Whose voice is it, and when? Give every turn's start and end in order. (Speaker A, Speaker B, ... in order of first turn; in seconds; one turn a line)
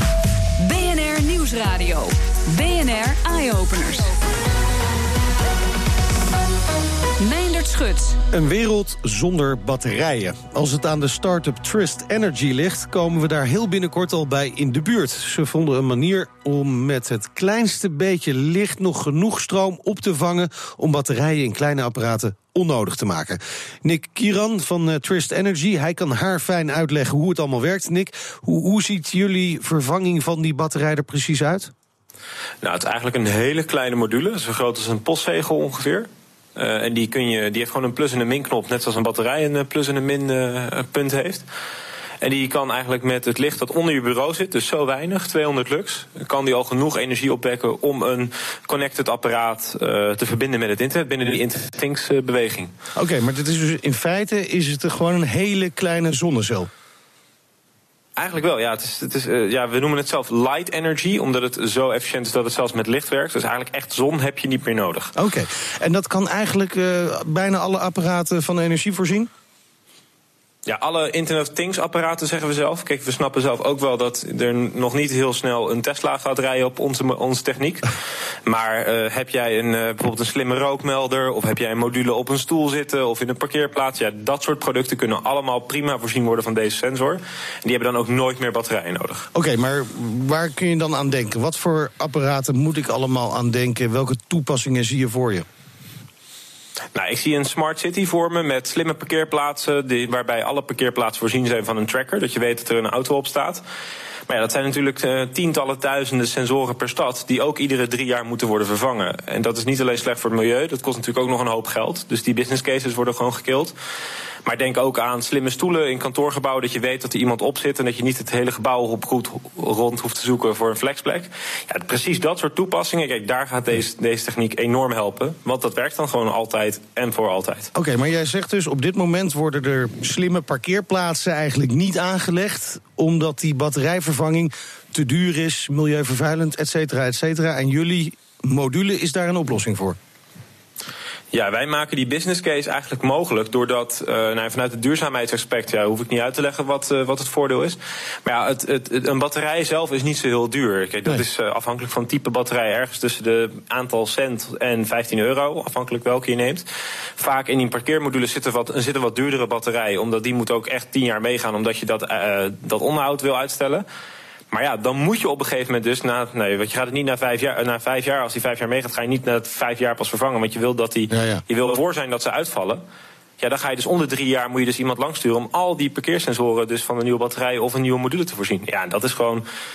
Speaker A: 0.6-4.1
Speaker A: 7.2-8.2
Speaker B: 8.3-31.7
Speaker C: 32.6-41.5
Speaker C: 42.2-52.7
Speaker B: 53.0-56.7
Speaker C: 58.2-65.1
Speaker B: 65.2-69.3
Speaker C: 70.7-77.9
Speaker C: 78.5-89.3
Speaker B: 89.3-95.5
Speaker C: 96.9-103.6
Speaker C: 104.3-113.7
Speaker C: 114.4-127.7
Speaker B: 127.7-140.0
Speaker C: 141.3-156.7
Speaker C: 157.2-163.8
Speaker C: 164.5-172.8
Speaker B: 171.1-171.4
Speaker C: 173.4-179.4